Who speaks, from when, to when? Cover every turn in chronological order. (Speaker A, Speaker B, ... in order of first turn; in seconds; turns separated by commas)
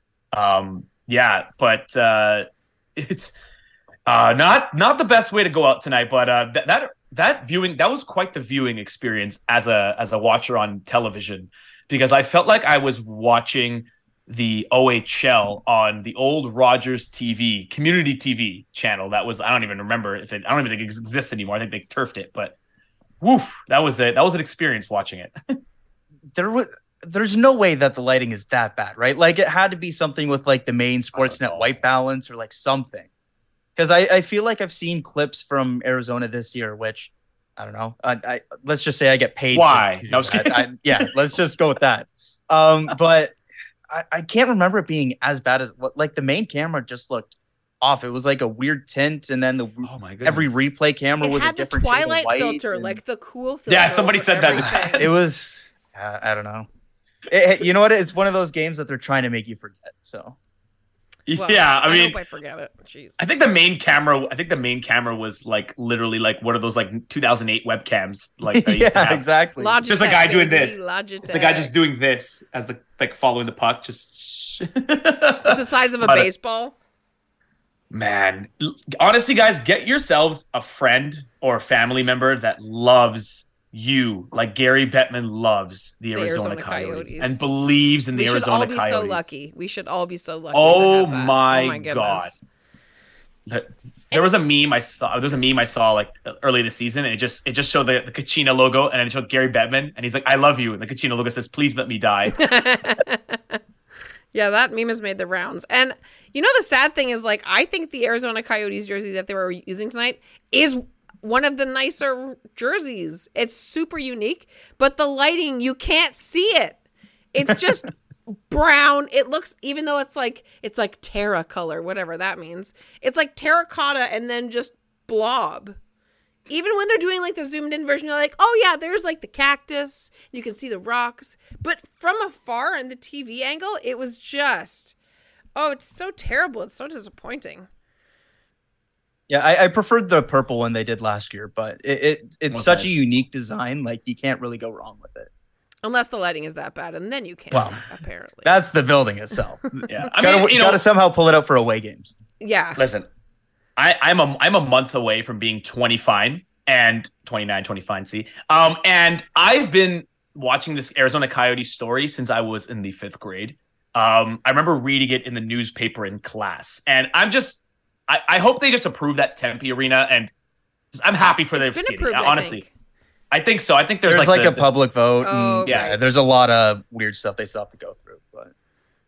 Speaker A: 0.3-3.3, Speaker A: 4.1-22.6, Speaker A: 23.2-25.6, Speaker B: 26.3-33.1, Speaker A: 31.1-31.7, Speaker B: 33.8-43.4, Speaker A: 39.5-41.1, Speaker B: 43.9-53.0, Speaker A: 49.8-50.5, Speaker C: 51.2-55.1, Speaker A: 53.7-55.1, Speaker B: 54.5-56.7, Speaker B: 57.3-60.4, Speaker A: 61.3-62.2, Speaker C: 61.4-63.2, Speaker A: 63.2-69.2, Speaker B: 68.5-69.8, Speaker C: 69.6-71.7, Speaker A: 69.9-76.3, Speaker C: 75.4-76.7, Speaker A: 77.9-89.3, Speaker C: 86.2-87.4, Speaker C: 88.1-92.4, Speaker A: 90.5-92.4, Speaker A: 93.5-102.5, Speaker C: 102.4-103.6, Speaker C: 104.3-116.8, Speaker C: 117.3-125.8, Speaker C: 126.5-134.9, Speaker C: 135.6-137.7, Speaker B: 139.3-145.3, Speaker A: 142.5-143.0, Speaker C: 145.8-148.6, Speaker B: 147.5-147.8, Speaker B: 148.4-152.1, Speaker A: 149.9-150.8, Speaker C: 152.4-152.8, Speaker A: 152.8-153.1, Speaker A: 153.8-170.3, Speaker A: 170.9-172.6, Speaker C: 171.6-172.7, Speaker A: 173.3-174.8, Speaker B: 174.1-178.5, Speaker C: 175.2-176.0, Speaker A: 175.7-175.9